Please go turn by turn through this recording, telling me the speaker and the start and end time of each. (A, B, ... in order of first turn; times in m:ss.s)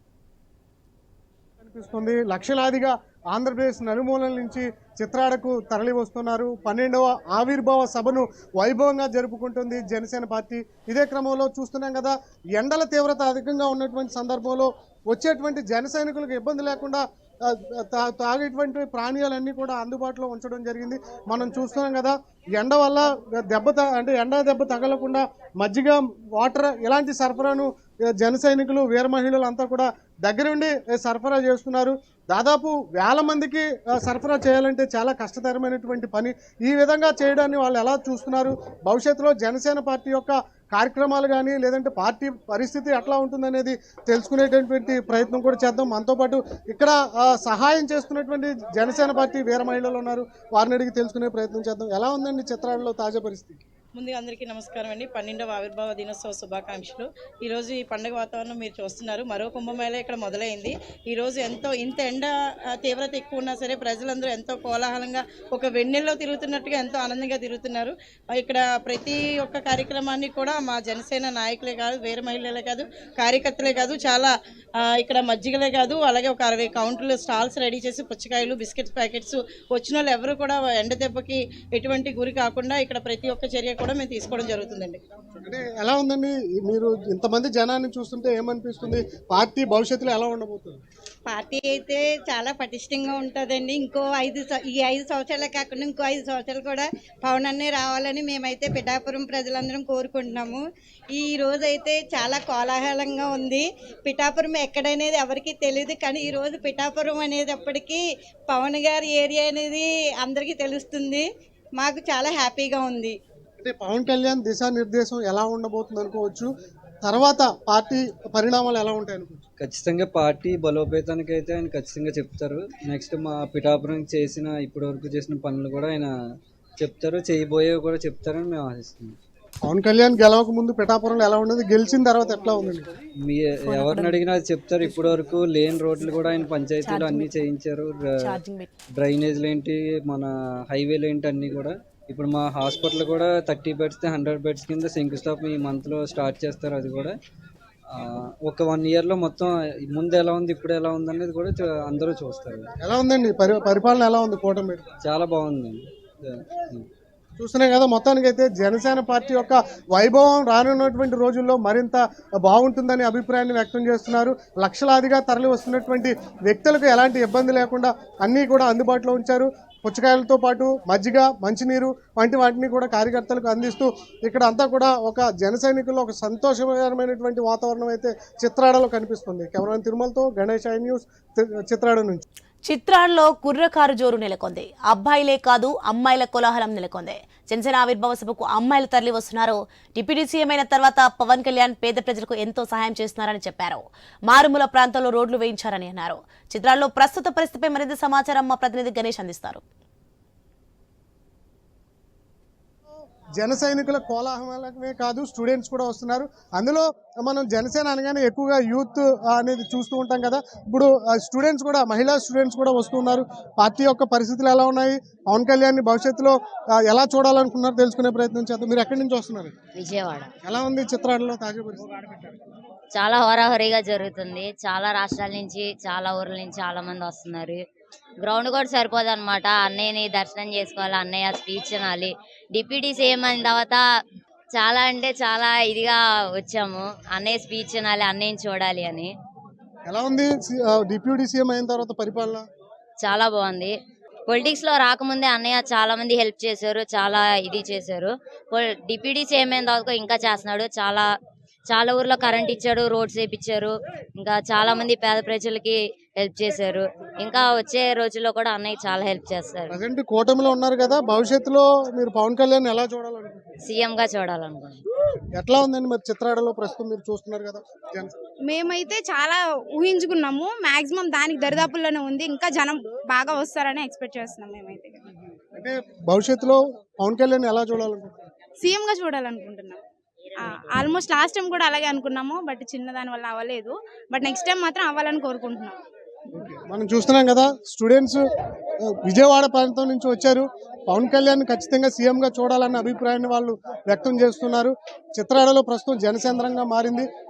0:01.6-0:53.6 A
0:54.0-1:25.0 B
1:25.4-1:30.8 A
1:31.3-1:51.3 C
1:51.8-1:53.2 C
1:53.6-1:56.5 A
1:57.0-1:59.4 A
1:59.6-2:06.1 D
2:06.8-2:09.2 D
2:09.7-2:12.9 A
2:13.3-2:18.1 D
2:13.6-2:14.2 E
2:16.8-2:17.3 E
2:18.2-2:18.7 E
2:19.0-2:27.2 D
2:27.9-2:32.7 D
2:32.8-2:34.8 A
2:35.0-2:36.9 D
2:37.4-3:02.2 A
3:02.7-3:19.6 E
3:23.4-3:39.5 A
3:39.8-3:40.3 F
3:40.4-3:42.1 A
3:42.9-3:47.6 F
3:48.2-3:53.8 F
3:54.5-3:59.1 F
3:59.9-4:02.5 A
4:03.0-4:03.7 F
4:04.3-4:11.1 F
4:11.7-4:19.7 F
4:19.7-4:23.6 A
4:23.7-4:24.8 F
4:25.4-4:28.1 A
4:28.5-4:35.0 G
4:35.6-4:38.1 A
4:38.6-4:39.8 G
4:40.4-4:45.8 G
4:46.3-4:48.2 A
4:48.9-4:57.1 A